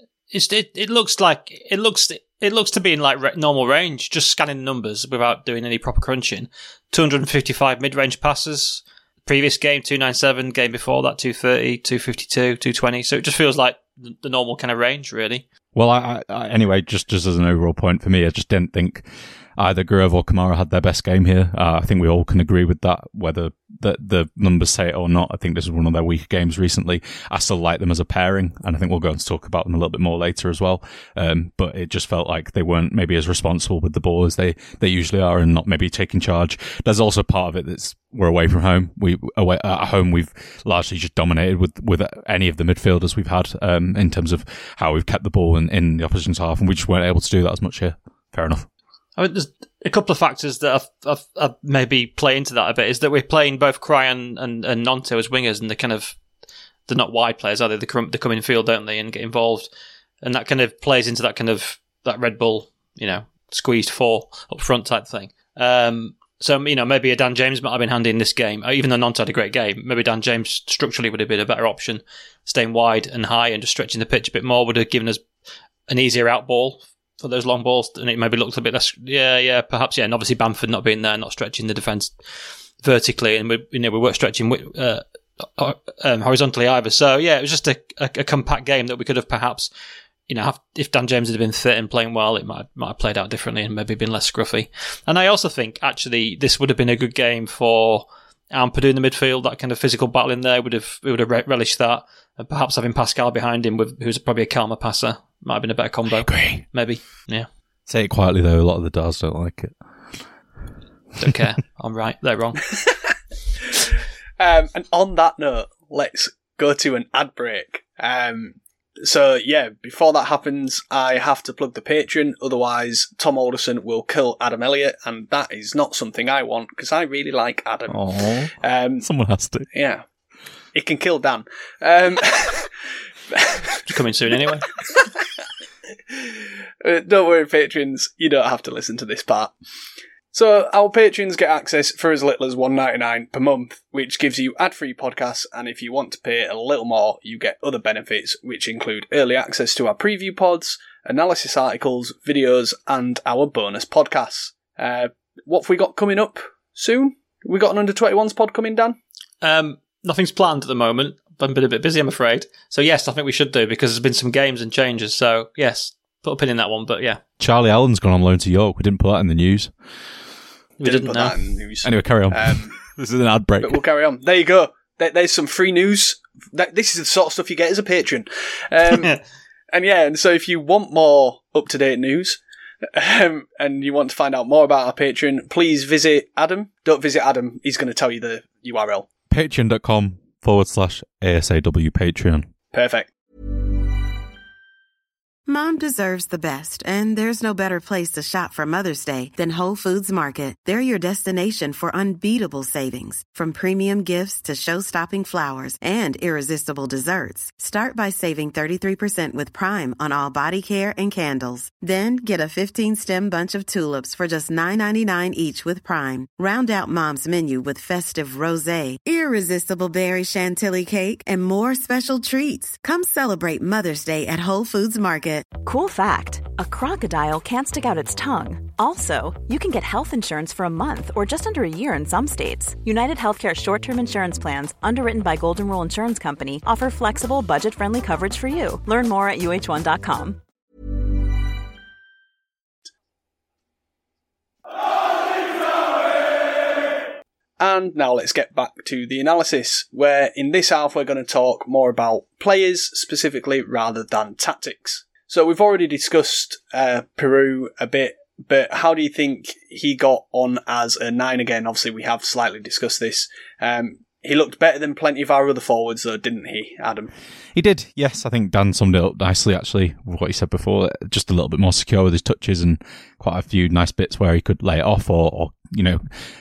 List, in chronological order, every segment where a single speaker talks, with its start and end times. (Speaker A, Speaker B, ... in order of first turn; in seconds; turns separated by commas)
Speaker A: 0.3-15.4, Speaker B: 15.7-48.7, Speaker A: 49.2-56.1, Speaker A: 56.9-59.7, Speaker A: 60.2-75.2, Speaker A: 75.9-89.7, Speaker A: 90.3-107.5, Speaker B: 106.1-106.6, Speaker B: 107.9-109.8, Speaker A: 111.2-112.6, Speaker C: 114.4-128.0, Speaker B: 127.9-129.7, Speaker C: 128.6-129.1, Speaker C: 129.7-130.0, Speaker C: 130.7-132.7, Speaker C: 133.3-133.8, Speaker A: 133.8-134.7, Speaker C: 136.1-139.5, Speaker C: 140.3-159.0, Speaker A: 159.4-167.2, Speaker B: 167.4-169.7, Speaker A: 170.8-171.3, Speaker C: 170.8-172.8, Speaker B: 171.8-173.8, Speaker C: 173.6-179.2, Speaker C: 179.7-182.4, Speaker C: 182.9-189.1, Speaker B: 189.3-192.5, Speaker C: 192.7-193.1, Speaker D: 195.5-225.5, Speaker E: 225.6-240.4, Speaker C: 247.6-267.1, Speaker B: 267.5-276.0